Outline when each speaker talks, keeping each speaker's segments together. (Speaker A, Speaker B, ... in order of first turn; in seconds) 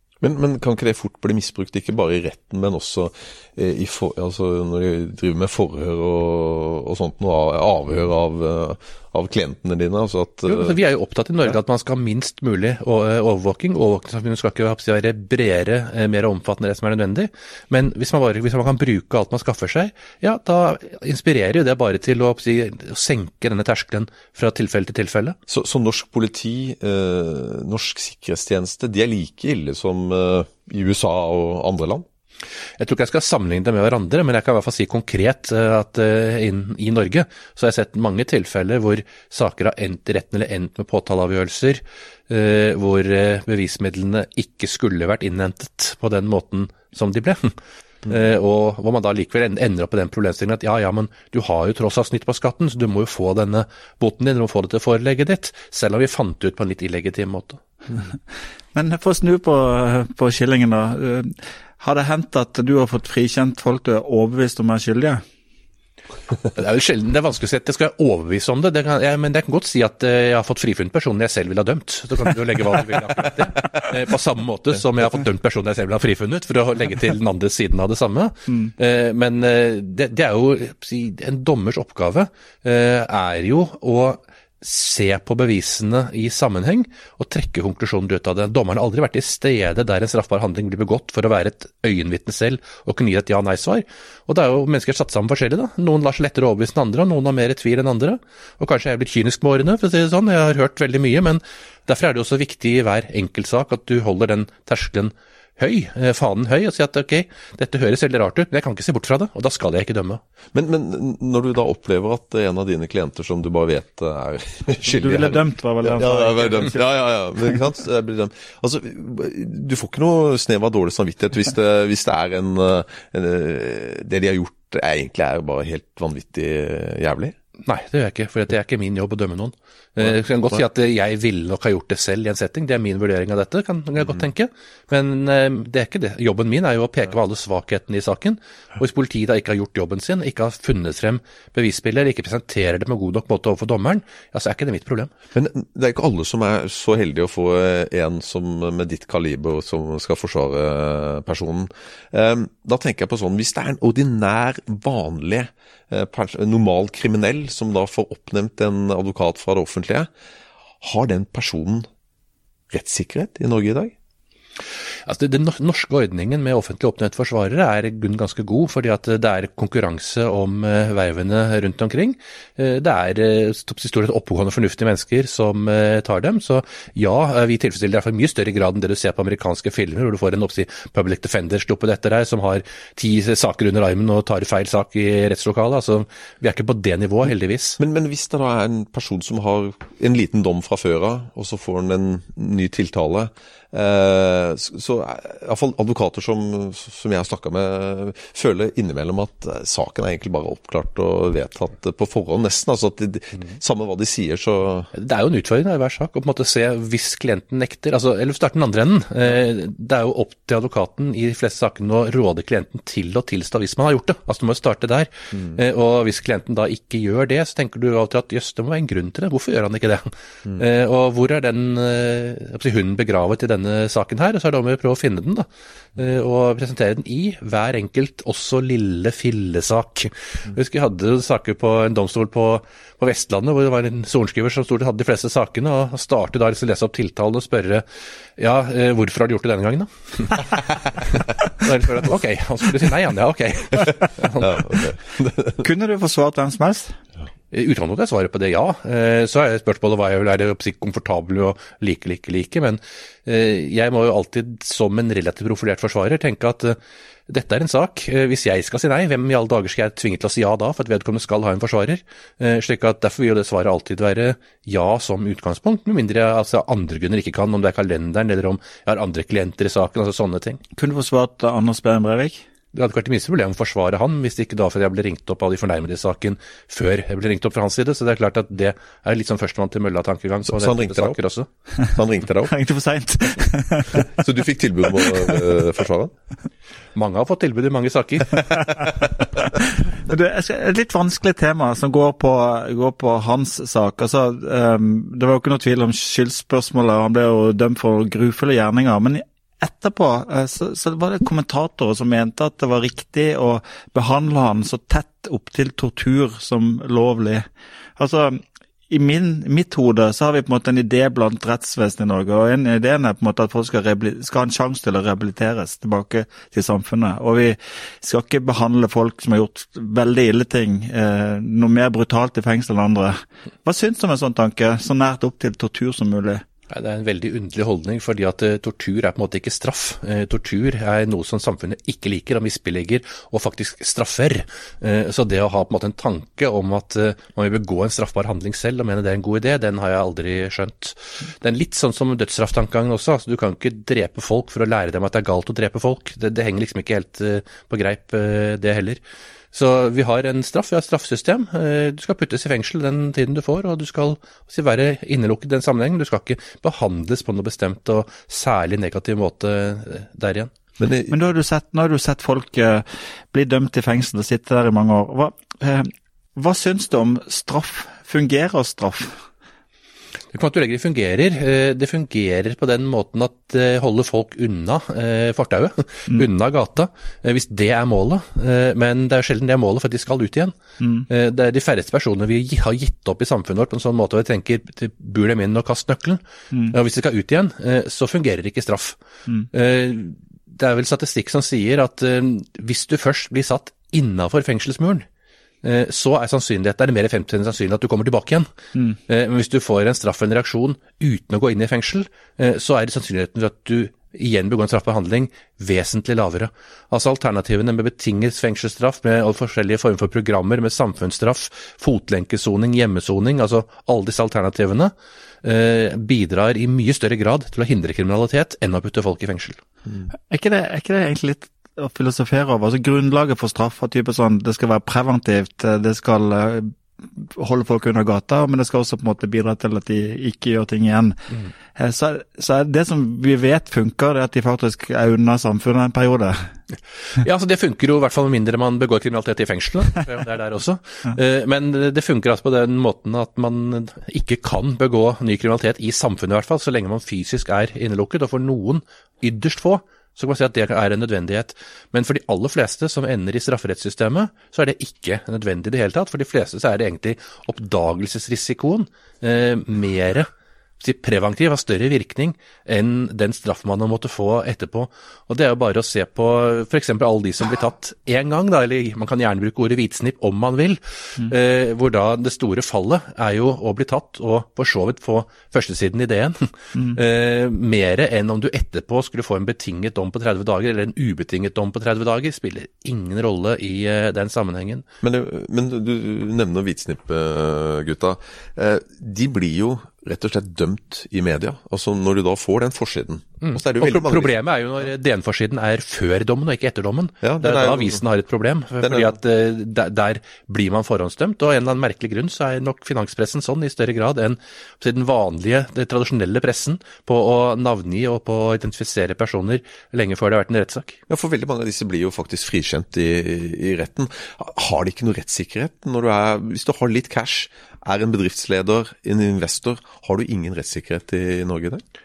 Speaker A: 0.2-10.8, 25.5-32.1, 110.5-127.4, 130.1-130.6, 145.3-160.1, 160.8-161.9, 162.7-163.9, 187.8-204.9, 244.3-245.7, 280.5-281.2, 281.9-282.5, 283.9-286.1, 360.8-361.1, 485.0-494.4, 497.2-498.0, 498.8-499.1, 511.1-521.8
Speaker B: 10.4-25.4, 32.8-47.5, 48.1-57.6, 66.5-110.2, 127.6-145.1, 165.1-187.8, 204.9-237.8, 238.4-244.5, 247.5-256.8, 257.3-270.6, 272.7-281.5, 286.9-288.7, 326.7-349.0, 349.5-360.5, 370.3-380.6, 381.1-389.0, 389.5-395.1, 395.6-398.5, 399.1-414.9, 415.4-419.6, 437.2-484.9, 493.4-511.0
Speaker C: 58.7-65.2, 114.8-116.8, 245.6-247.0, 270.8-272.4, 282.5-284.1, 285.1-285.5, 289.7-307.5, 308.0-326.4, 361.1-369.2, 380.8-381.1, 420.3-431.2, 431.8-436.5